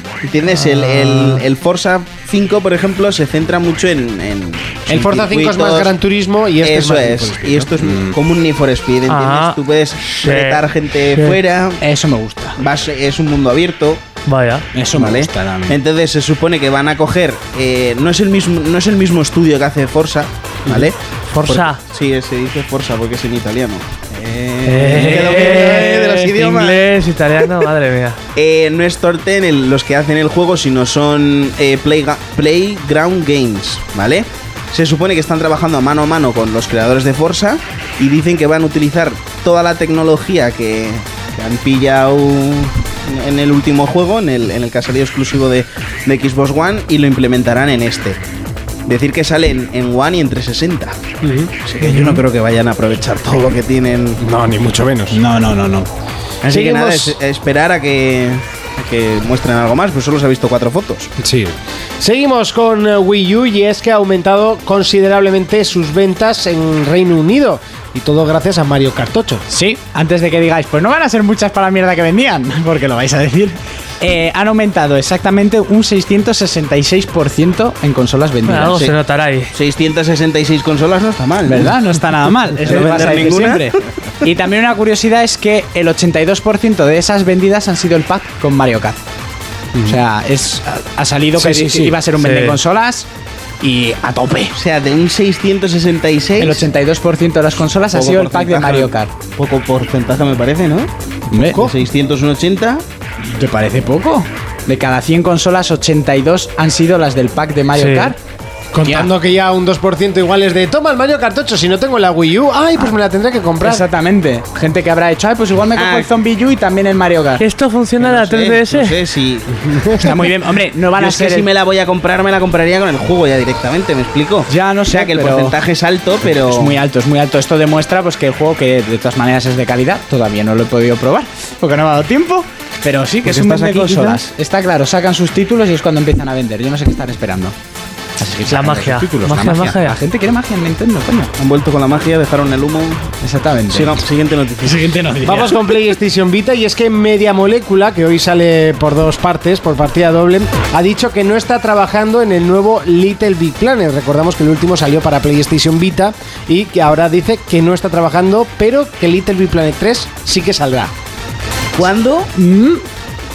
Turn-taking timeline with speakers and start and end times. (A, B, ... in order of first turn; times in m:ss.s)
0:00.2-0:05.9 A
0:00.5-0:01.4 B
0:04.9-0:08.1 C
0:06.6-0:11.8 A
0:09.1-0:11.4 B
0:11.8-0:12.6 D
0:12.6-0:14.0 A
0:14.3-0:14.6 B
0:14.7-0:15.8 D
0:14.9-0:26.8 A
0:21.3-0:21.8 B
0:24.6-0:28.2 B
0:28.4-0:48.2 A
0:48.8-0:51.0 A
0:51.2-0:51.5 C
0:51.6-0:54.2 A
0:51.8-0:52.2 D
0:54.2-0:55.2 C
0:55.1-0:55.9 D
0:56.4-1:01.1 A
0:56.5-0:57.2 C
1:01.2-1:09.4 C
1:09.5-1:18.9 D
1:18.5-1:19.5 B
1:19.5-1:21.7 A
1:21.4-1:29.0 D
1:22.6-1:23.8 A
1:22.6-1:23.2 B
1:29.8-1:33.1 D
1:31.4-1:32.0 C
1:32.2-1:32.6 B
1:33.6-1:34.5 D
1:34.5-1:36.7 A
1:36.4-1:39.1 D
1:37.9-1:40.9 A
1:41.3-1:41.7 D
1:41.5-1:42.8 A
1:43.2-1:48.2 D
1:47.8-1:48.1 B
1:48.8-1:53.8 C
1:48.8-1:49.1 D
1:53.6-1:57.4 D
1:55.8-1:56.1 A
1:57.4-1:59.0 B
1:58.0-2:00.0 A
2:00.0-2:01.5 D
2:01.0-2:06.8 A
2:04.5-2:05.6 D
2:06.2-2:17.6 D
2:13.2-2:14.2 A
2:18.2-2:21.3 D
2:18.5-2:20.0 B
2:21.4-2:23.1 A
2:23.2-2:24.0 D
2:23.7-2:24.9 A
2:24.6-2:25.8 D
2:25.2-2:40.9 C
2:41.8-2:42.3 A
2:42.3-2:42.8 D